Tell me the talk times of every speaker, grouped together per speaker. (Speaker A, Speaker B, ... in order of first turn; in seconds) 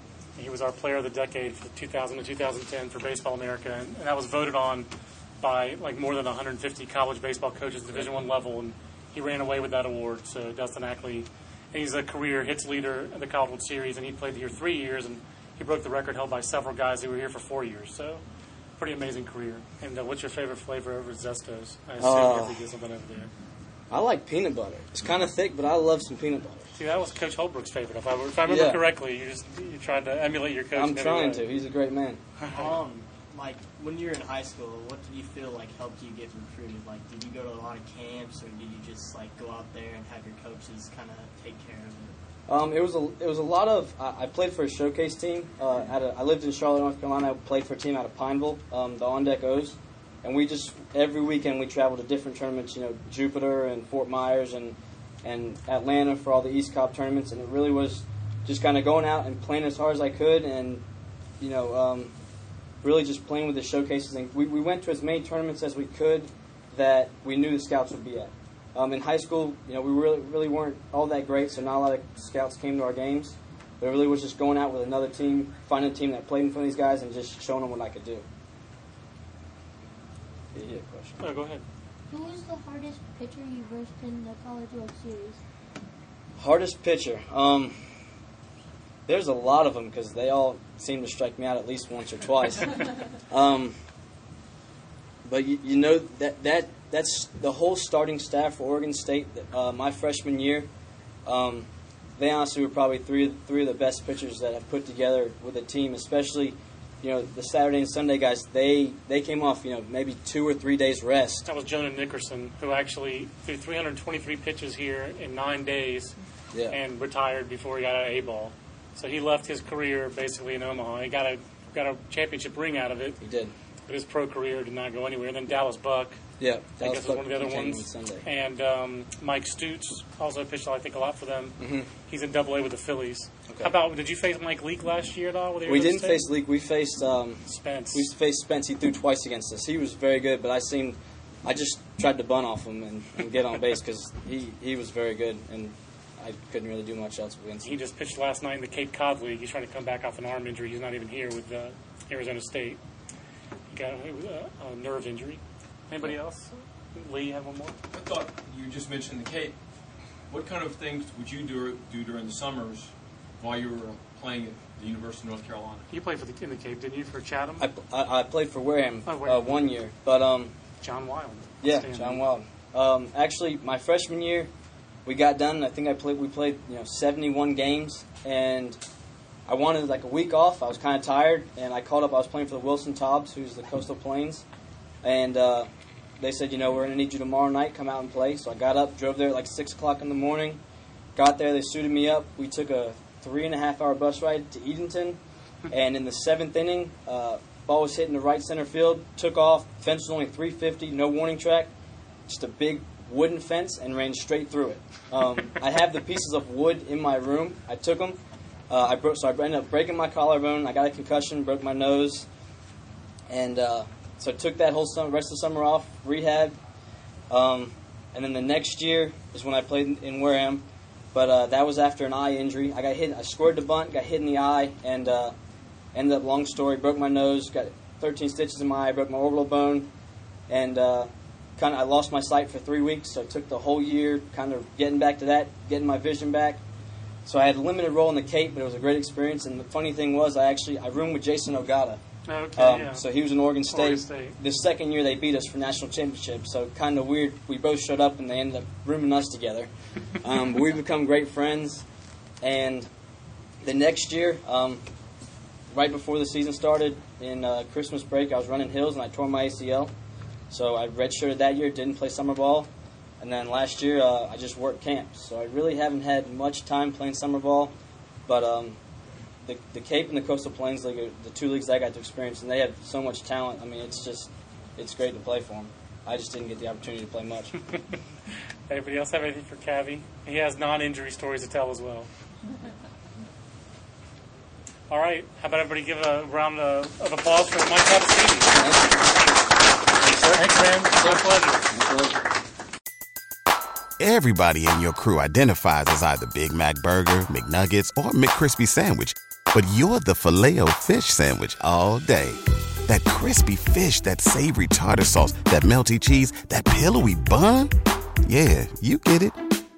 Speaker A: 0.4-4.9, 5.4-18.2, 18.8-23.3, 26.8-31.4, 81.2-81.6, 111.5-116.2, 116.7-123.2, 123.9-126.2, 126.8-136.3, 137.5-138.1, 147.6-152.8, 153.7-157.8, 165.9-167.7, 169.1-169.7, 170.8-172.2, 242.3-243.1, 243.7-244.4, 278.7-282.1, 284.9-288.6, 290.3-291.7
Speaker B: 22.0-22.6, 23.9-26.7, 28.5-28.8, 30.7-32.2, 42.5-60.8, 61.4-62.1, 62.8-78.2, 80.5-81.2, 86.4-87.8, 89.1-93.8, 95.3-100.7, 101.3-111.5, 123.2-123.5, 126.4-128.2, 131.6-131.9, 135.7-147.8, 167.6-170.5, 171.6-174.5, 175.1-178.8, 179.5-184.4, 185.0-185.7, 186.2-190.6, 191.2-195.2, 195.7-201.7, 202.3-212.3, 213.3-216.6, 217.3-225.3, 225.9-229.9, 230.5-236.6, 237.2-242.0, 242.6-251.8, 252.4-252.9, 253.6-254.8, 255.7-259.9, 260.5-262.7, 263.2-267.7, 268.3-268.8, 269.5-277.5, 288.6-288.8, 290.0-292.1
Speaker C: 32.5-42.2
Speaker D: 82.1-85.4
Speaker E: 157.9-159.6, 160.3-165.9
Speaker F: 294.0-307.7, 308.2-309.4